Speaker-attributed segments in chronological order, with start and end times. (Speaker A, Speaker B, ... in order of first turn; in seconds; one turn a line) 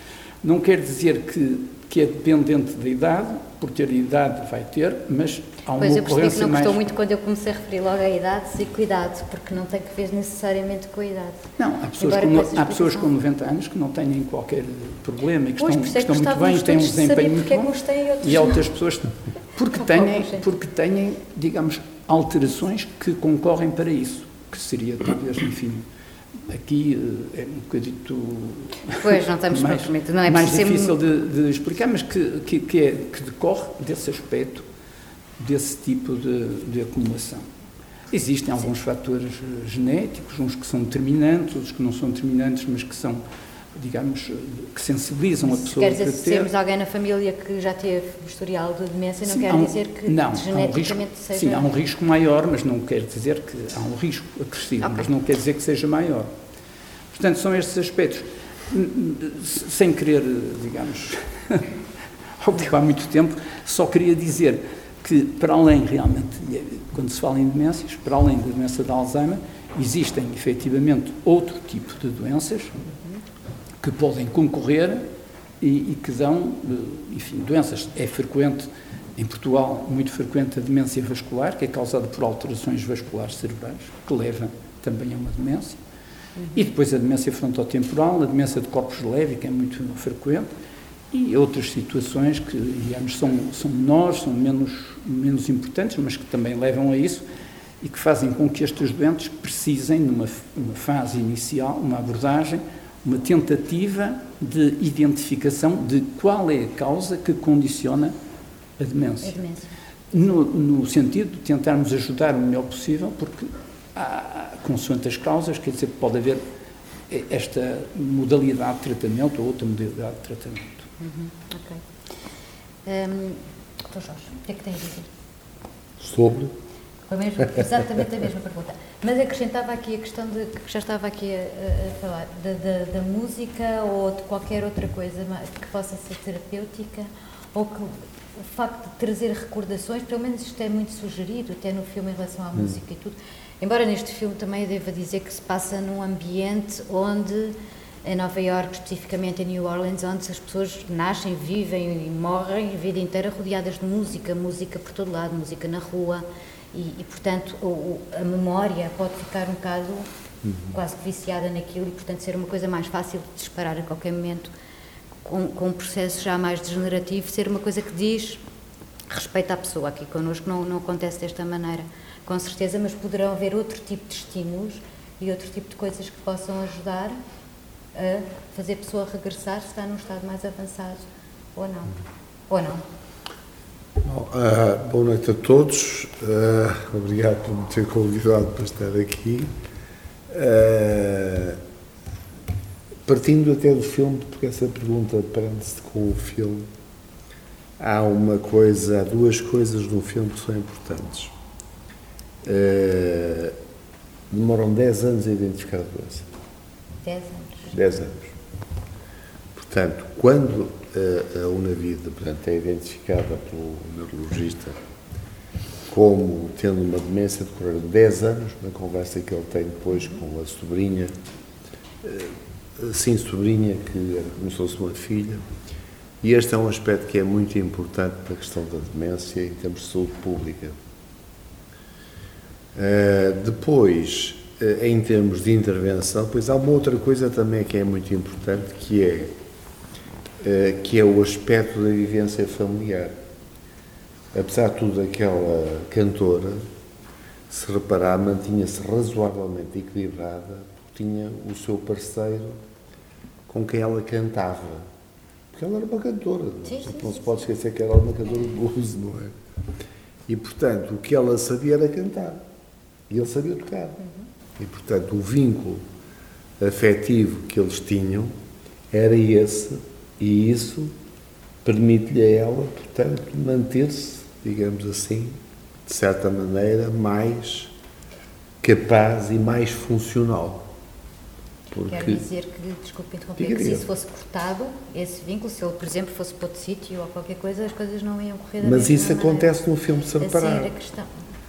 Speaker A: 0.4-6.8
Speaker B: 5.8-11.4
Speaker A: 11.6-25.9
Speaker B: 12.0-13.1
Speaker B: 15.6-18.6
Speaker B: 19.8-20.4
Speaker A: 26.4-34.6
Speaker B: 29.0-30.9
Speaker A: 35.4-37.5
Speaker A: 38.1-43.2
Speaker A: 43.7-46.5
Speaker B: 45.5-51.7
Speaker A: 49.3-56.3
Speaker B: 54.8-55.1
Speaker A: 57.1-61.7
Speaker A: 62.4-72.7
Speaker A: 73.8-75.0
Speaker A: 75.6-85.8
Speaker B: 86.4-86.6
Speaker A: 86.5-90.5
Speaker A: 91.1-97.2
Speaker A: 97.8-108.1
Speaker A: 108.8-109.4
Speaker B: 109.2-109.7
Speaker A: 110.1-116.4
Speaker A: 117.1-120.8
Speaker B: 121.0-121.8
Speaker B: 122.8-125.1
Speaker C: 126.0-126.5
Speaker B: 127.1-160.1
Speaker C: 160.4-160.8
Speaker B: 160.7-164.5
Speaker B: 165.2-168.4
Speaker B: 169.1-177.2
Speaker B: 177.9-182.0
Speaker B: 182.5-182.8
Speaker C: 184.0-189.5
Speaker C: 190.3-191.6
Speaker C: 193.1-196.7
Speaker C: 197.8-201.3
Speaker C: 202.4-203.6
Speaker C: 204.3-206.3
Speaker B: 207.0-207.8
Speaker C: 207.7-208.3
Speaker C: 209.5-214.8
Speaker C: 215.9-221.1
Speaker C: 222.0-225.4
Speaker C: 226.2-230.8
Speaker C: 232.7-239.3
Speaker C: 240.4-243.2
Speaker C: 244.3-246.7
Speaker C: 247.5-252.6
Speaker C: 253.5-254.9
Speaker C: 255.5-259.3
Speaker B: 256.6-257.4
Speaker C: 260.3-262.4
Speaker C: 263.1-264.0
Speaker C: 264.6-265.8
Speaker C: 266.6-268.3
Speaker C: 268.9-270.9
Speaker C: 271.6-277.7
Speaker C: 278.6-280.7
Speaker C: 281.7-282.2
Speaker B: 281.8-289.5
Speaker C: 283.4-283.9
Speaker C: 288.6-290.7
Speaker B: 290.2-291.1